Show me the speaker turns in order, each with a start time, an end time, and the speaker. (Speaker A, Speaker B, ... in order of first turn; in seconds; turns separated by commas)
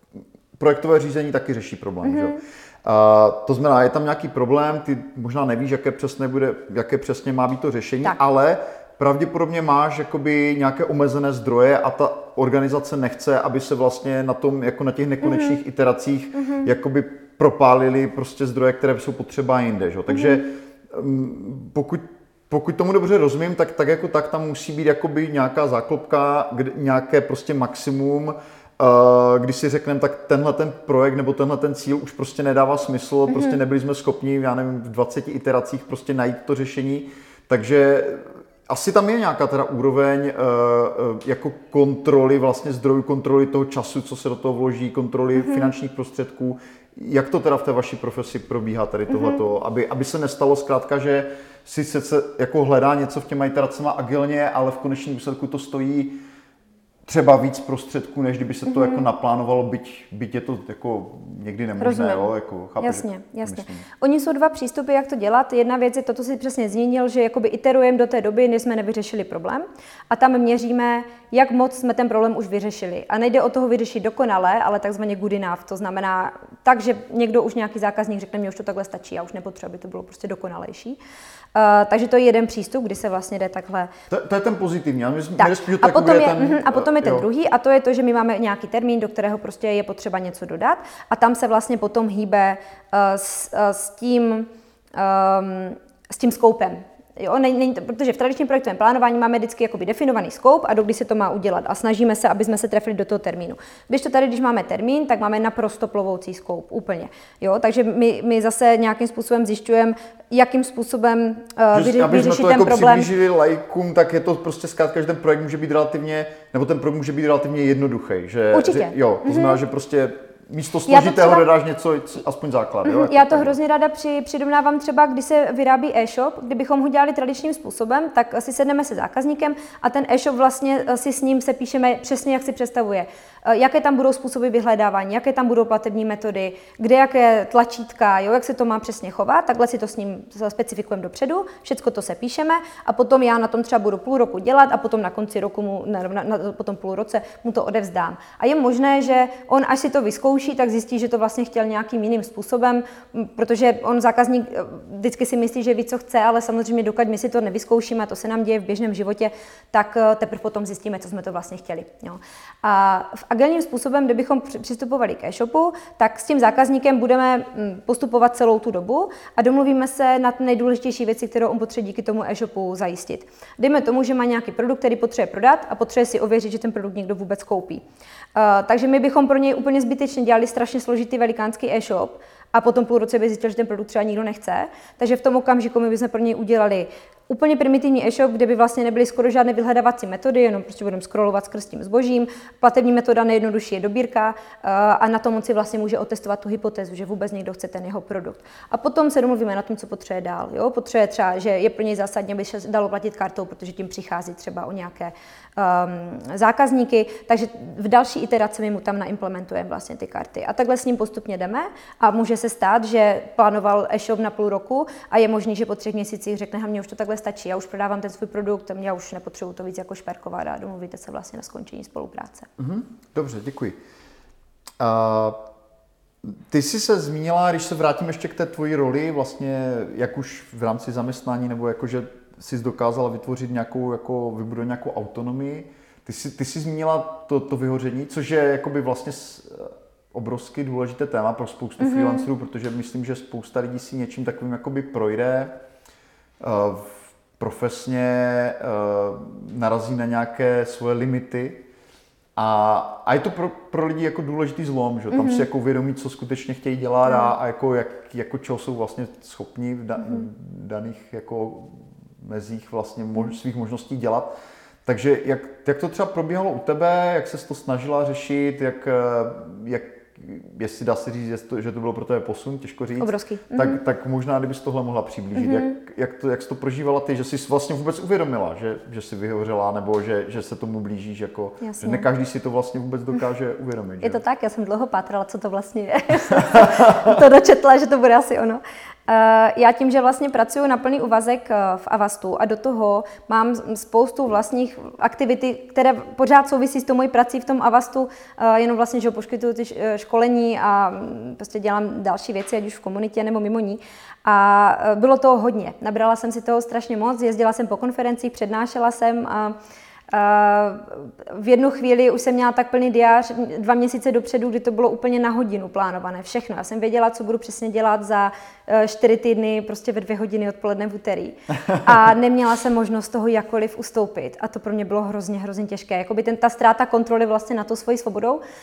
Speaker A: 0.6-56.2, Speaker B: 2.0-2.4, Speaker B: 33.3-33.6, Speaker B: 45.5-45.7, Speaker A: 57.1-63.9, Speaker B: 61.8-62.2, Speaker B: 62.8-81.0, Speaker B: 81.5-83.9, Speaker A: 84.1-87.3, Speaker B: 85.4-113.1, Speaker A: 111.7-123.6, Speaker B: 118.5-119.6, Speaker B: 120.9-121.5, Speaker B: 122.8-177.8, Speaker B: 178.3-222.5, Speaker A: 222.6-223.8, Speaker A: 224.8-225.4, Speaker A: 226.2-245.5, Speaker B: 241.8-242.3, Speaker A: 246.4-251.7, Speaker A: 252.4-264.3, Speaker B: 255.1-255.5, Speaker A: 264.9-284.2, Speaker B: 273.0-273.8, Speaker B: 281.6-282.1, Speaker B: 284.0-309.6, Speaker A: 286.4-287.2, Speaker B: 310.1-328.4